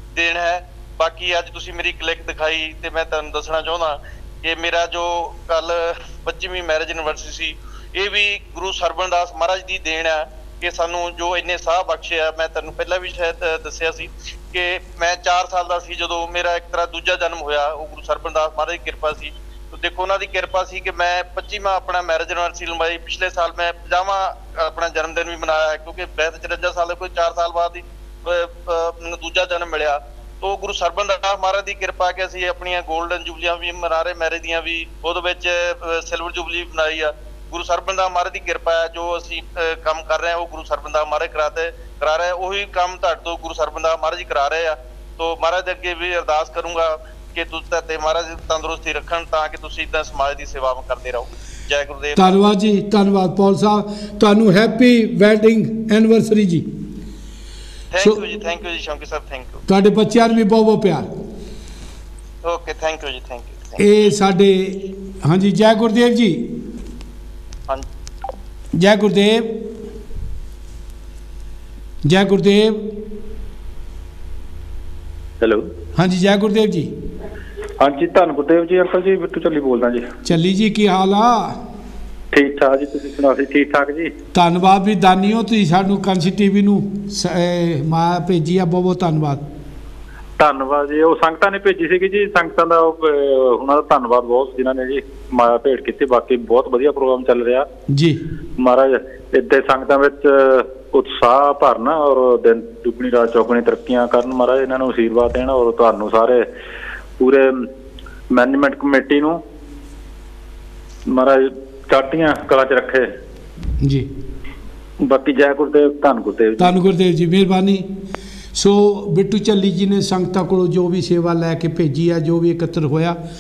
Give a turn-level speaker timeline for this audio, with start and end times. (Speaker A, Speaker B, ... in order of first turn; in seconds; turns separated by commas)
Speaker A: 0.1-52.4, Speaker B: 52.2-56.7, Speaker A: 57.9-59.6, Speaker B: 59.7-61.1, Speaker A: 62.4-63.8, Speaker B: 63.8-66.6, Speaker B: 68.8-69.7, Speaker B: 72.0-73.0, Speaker C: 75.4-75.7, Speaker B: 76.0-76.9, Speaker C: 77.8-80.1, Speaker B: 80.2-81.6, Speaker C: 82.3-84.1, Speaker B: 84.3-89.4, Speaker C: 90.4-97.7, Speaker B: 97.9-98.2, Speaker C: 98.6-106.5, Speaker C: 107.2-107.7, Speaker C: 108.3-109.4, Speaker C: 111.1-113.1, Speaker B: 113.8-114.1, Speaker C: 115.0-116.7, Speaker B: 116.6-117.9, Speaker B: 118.5-123.2